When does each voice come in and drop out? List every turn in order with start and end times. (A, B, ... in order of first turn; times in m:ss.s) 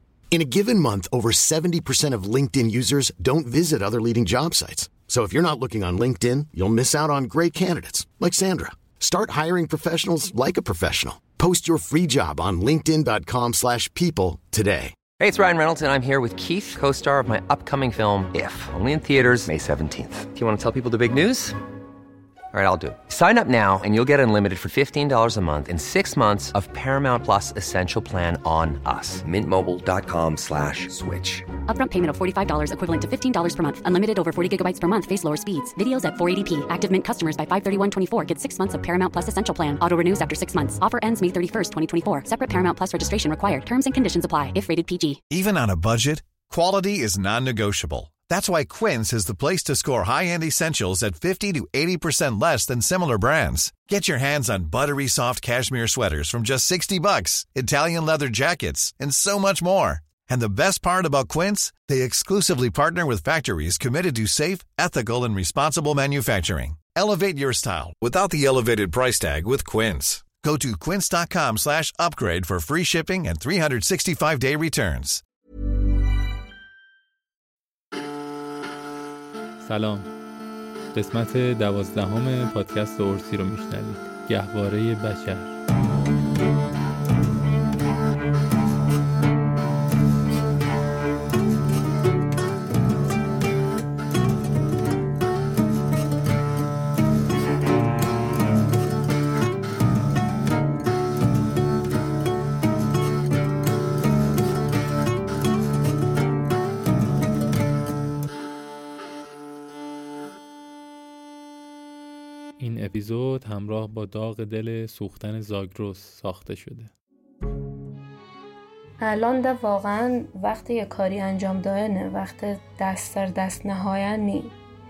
0:00.3-0:15.0 A
0:15.2-0:21.6 B
0:22.5-0:31.5 B
0:31.7-0:45.2 C
0:45.3-1:15.2 D
1:19.6-1:20.1 E
1:20.9-1:25.6 E
1:52.6-1:56.9 E
1:59.0-2:04.5 F